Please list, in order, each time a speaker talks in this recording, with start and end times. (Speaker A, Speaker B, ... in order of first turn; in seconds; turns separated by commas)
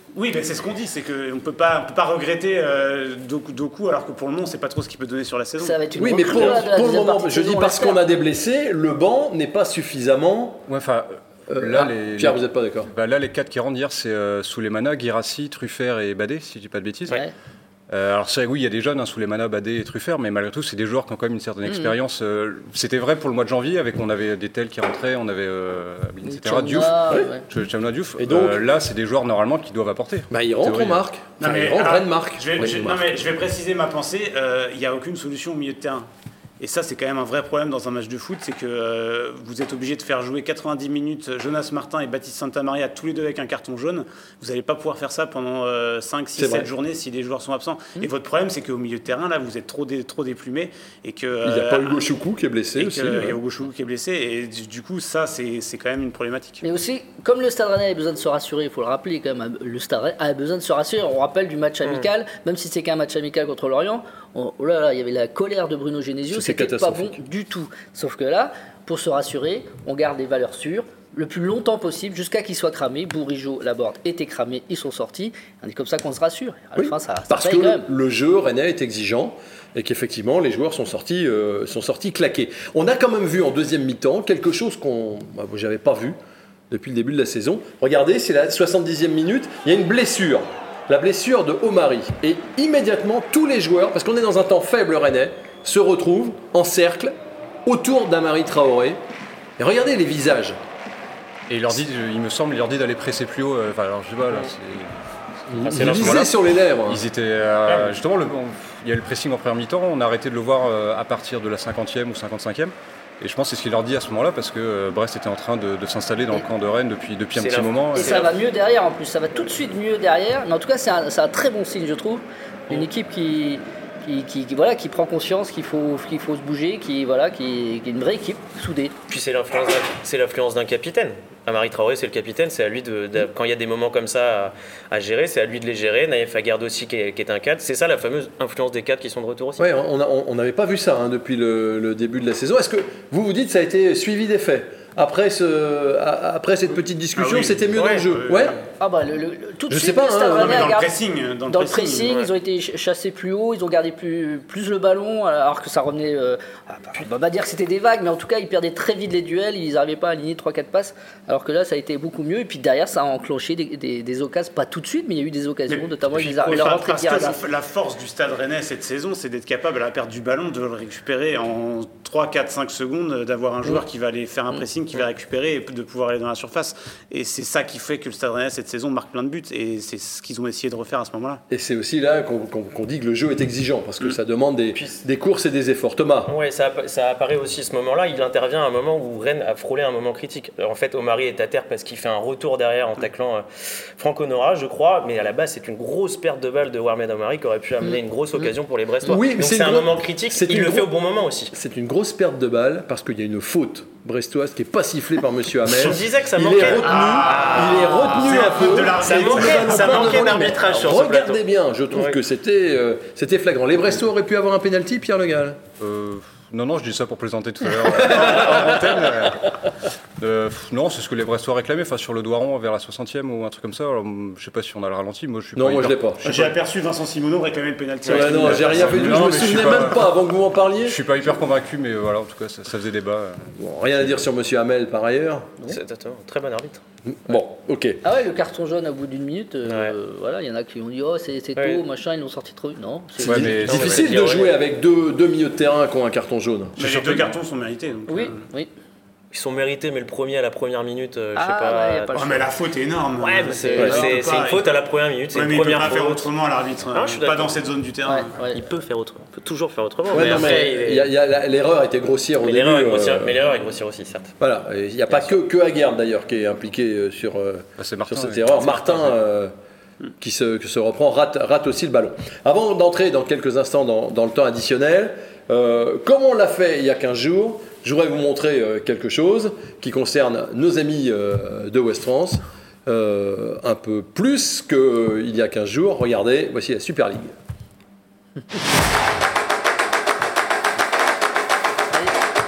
Speaker A: 0.1-5.8, Speaker B: 5.6-8.0, Speaker C: 6.0-10.6, Speaker D: 10.7-17.2, Speaker C: 11.5-12.9, Speaker D: 17.9-31.0, Speaker B: 21.6-21.9, Speaker B: 26.2-27.4, Speaker C: 28.2-28.6, Speaker C: 30.3-33.1, Speaker A: 31.4-36.1, Speaker A: 36.6-52.0, Speaker C: 46.4-46.7, Speaker C: 51.4-53.4, Speaker A: 52.8-56.6, Speaker B: 56.6-77.9, Speaker C: 66.3-67.2, Speaker C: 76.8-86.2, Speaker C: 86.7-97.1, Speaker C: 97.7-99.0, Speaker C: 99.6-100.6, Speaker D: 101.5-106.3, Speaker C: 105.5-107.0, Speaker E: 105.6-106.3, Speaker D: 106.8-118.2, Speaker E: 107.7-107.9, Speaker E: 117.3-118.3, Speaker B: 117.9-128.9, Speaker E: 129.1-139.7, Speaker C: 139.6-148.6, Speaker A: 147.2-148.6, Speaker E: 147.7-148.0, Speaker B: 148.8-150.9, Speaker C: 149.7-150.8, Speaker A: 150.3-152.1, Speaker B: 151.5-167.4, Speaker A: 165.7-181.4, Speaker C: 181.5-186.3, Speaker E: 184.7-185.0, Speaker E: 186.2-193.4, Speaker E: 193.9-201.5, Speaker C: 199.0-200.9, Speaker C: 201.5-215.6, Speaker E: 205.6-211.4, Speaker A: 206.6-210.4, Speaker E: 211.9-212.2, Speaker D: 215.8-219.7, Speaker C: 217.8-218.9, Speaker D: 220.2-226.0, Speaker C: 225.5-226.5, Speaker A: 226.2-229.7, Speaker C: 228.1-231.0, Speaker D: 228.3-230.1, Speaker D: 230.8-233.5, Speaker C: 233.6-235.5, Speaker E: 235.7-236.8, Speaker C: 237.0-238.0, Speaker B: 238.0-243.6, Speaker E: 239.7-239.9, Speaker D: 243.2-244.5, Speaker C: 243.2-246.8, Speaker E: 243.7-244.5, Speaker D: 246.8-247.3, Speaker A: 246.8-248.4, Speaker B: 248.1-248.7, Speaker E: 249.3-252.4, Speaker B: 251.3-252.5, Speaker A: 252.1-254.8, Speaker E: 253.2-256.3, Speaker B: 253.5-254.2, Speaker C: 253.8-254.1, Speaker A: 255.3-258.3, Speaker E: 256.9-257.6, Speaker B: 258.1-258.6, Speaker E: 258.5-261.1, Speaker C: 260.1-263.4, Speaker E: 262.4-264.3, Speaker C: 264.4-269.5, Speaker D: 267.8-269.1, Speaker C: 270.2-287.3